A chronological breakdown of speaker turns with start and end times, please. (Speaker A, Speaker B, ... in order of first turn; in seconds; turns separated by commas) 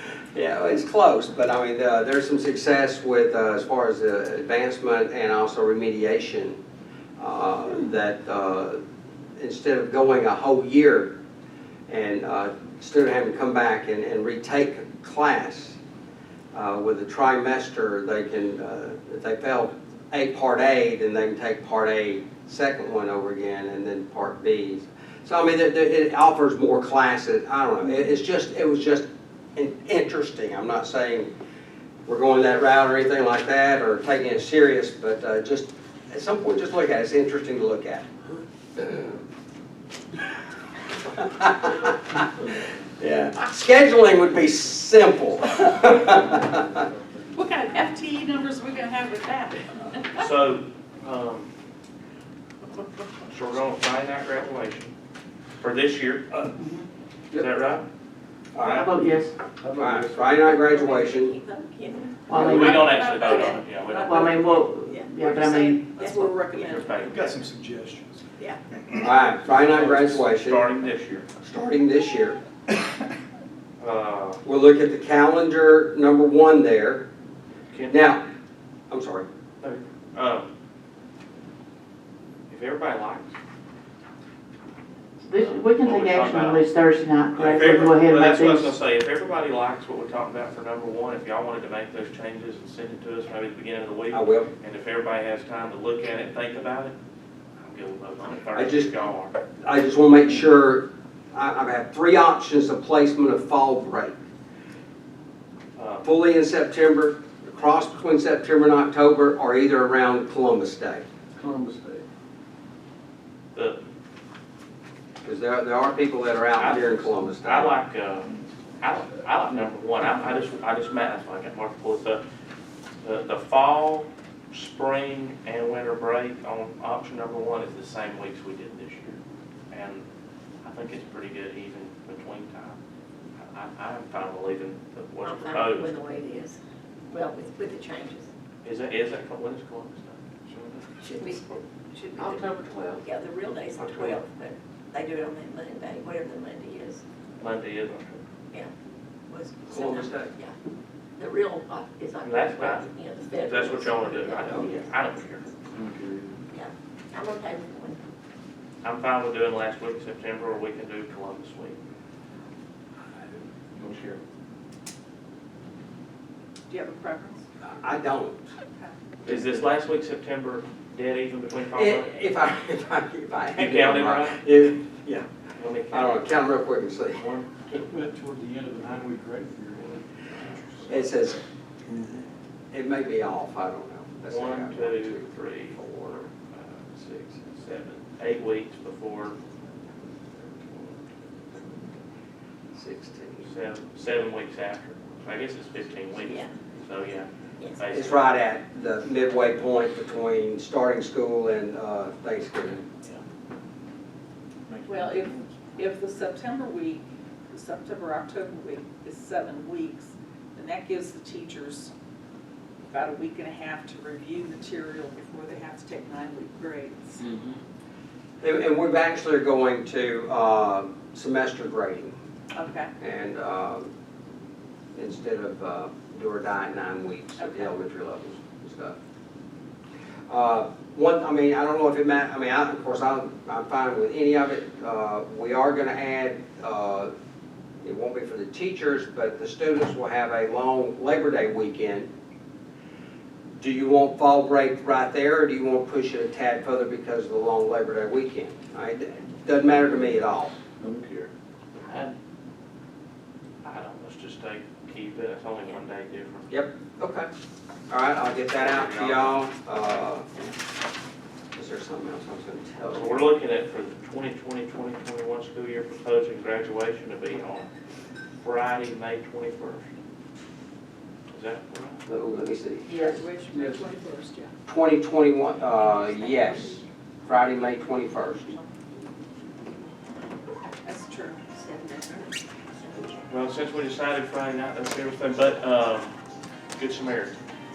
Speaker A: 0.3-6.6, Speaker A: 7.2-8.8, Speaker A: 9.4-11.2, Speaker A: 11.9-15.8, Speaker A: 16.5-31.3, Speaker A: 32.0-38.1, Speaker A: 38.8-39.2, Speaker A: 41.2-42.4, Speaker A: 43.0-46.8, Speaker B: 45.9-47.4, Speaker C: 47.3-50.2, Speaker D: 50.1-51.5, Speaker D: 53.3-54.9, Speaker D: 55.6-56.3, Speaker E: 56.6-56.8, Speaker D: 57.3-57.9, Speaker A: 58.5-58.9, Speaker E: 58.6-59.3, Speaker B: 59.6-60.4, Speaker A: 59.8-61.3, Speaker F: 60.4-63.7, Speaker E: 62.3-62.8, Speaker D: 62.3-64.7, Speaker C: 62.4-64.7, Speaker E: 64.0-65.8, Speaker F: 64.8-66.8, Speaker C: 65.2-67.4, Speaker D: 66.5-67.3, Speaker B: 67.0-68.2, Speaker B: 68.8-69.1, Speaker A: 69.0-70.7, Speaker D: 69.5-71.3, Speaker A: 71.4-72.4, Speaker D: 73.8-74.4, Speaker A: 74.4-77.1, Speaker D: 77.7-78.1, Speaker A: 77.9-78.2, Speaker A: 78.9-79.2, Speaker D: 79.6-80.5, Speaker D: 82.5-83.3, Speaker E: 85.2-88.7, Speaker D: 85.3-86.7, Speaker D: 87.3-97.0, Speaker A: 94.1-94.5, Speaker D: 97.6-99.3, Speaker A: 98.5-98.9, Speaker A: 99.6-104.2, Speaker D: 105.8-106.1, Speaker A: 106.0-111.0, Speaker B: 111.3-112.0, Speaker D: 113.5-113.8, Speaker A: 115.2-117.8, Speaker D: 116.5-122.2, Speaker D: 123.0-129.2, Speaker D: 129.7-130.1, Speaker D: 130.6-132.8, Speaker D: 133.4-135.9, Speaker F: 135.2-136.6, Speaker F: 137.1-138.3, Speaker D: 138.6-141.3, Speaker F: 141.0-147.0, Speaker D: 143.8-144.2, Speaker D: 147.4-148.2, Speaker F: 149.3-150.5, Speaker A: 149.7-150.3, Speaker F: 151.2-155.0, Speaker D: 152.2-155.5, Speaker B: 155.7-156.4, Speaker F: 156.5-158.0, Speaker D: 158.8-161.8, Speaker B: 163.3-164.2, Speaker C: 166.7-167.4, Speaker A: 167.6-168.5, Speaker D: 169.2-172.1, Speaker A: 171.7-175.3, Speaker D: 173.5-174.5, Speaker D: 175.6-176.5, Speaker A: 175.9-177.2, Speaker D: 177.1-177.9, Speaker B: 177.7-181.2, Speaker A: 180.9-181.4, Speaker B: 181.9-182.2, Speaker A: 182.7-186.2, Speaker D: 184.3-189.4, Speaker D: 190.6-192.0, Speaker A: 192.7-193.5, Speaker D: 193.4-198.3, Speaker F: 196.2-196.5, Speaker A: 197.9-202.8, Speaker B: 204.7-205.4, Speaker C: 204.8-211.9, Speaker C: 212.9-217.2, Speaker A: 218.4-222.1, Speaker C: 222.5-222.9, Speaker A: 223.0-223.9, Speaker A: 224.9-229.0, Speaker C: 227.4-227.7, Speaker A: 230.3-237.1, Speaker A: 237.8-242.1, Speaker A: 243.6-250.5, Speaker B: 250.8-251.3, Speaker D: 253.6-256.6, Speaker A: 256.5-257.3, Speaker A: 257.9-260.3, Speaker D: 258.5-259.4, Speaker A: 261.5-263.2, Speaker D: 262.9-267.7, Speaker D: 268.4-269.9, Speaker D: 271.3-272.0, Speaker A: 272.1-272.9, Speaker C: 272.9-274.5, Speaker E: 272.9-273.2, Speaker B: 273.5-273.9, Speaker A: 274.7-278.5, Speaker F: 275.8-276.7, Speaker C: 276.2-276.6, Speaker F: 277.3-278.6, Speaker C: 280.8-281.5, Speaker F: 281.5-283.3, Speaker D: 283.3-286.1, Speaker D: 286.7-287.4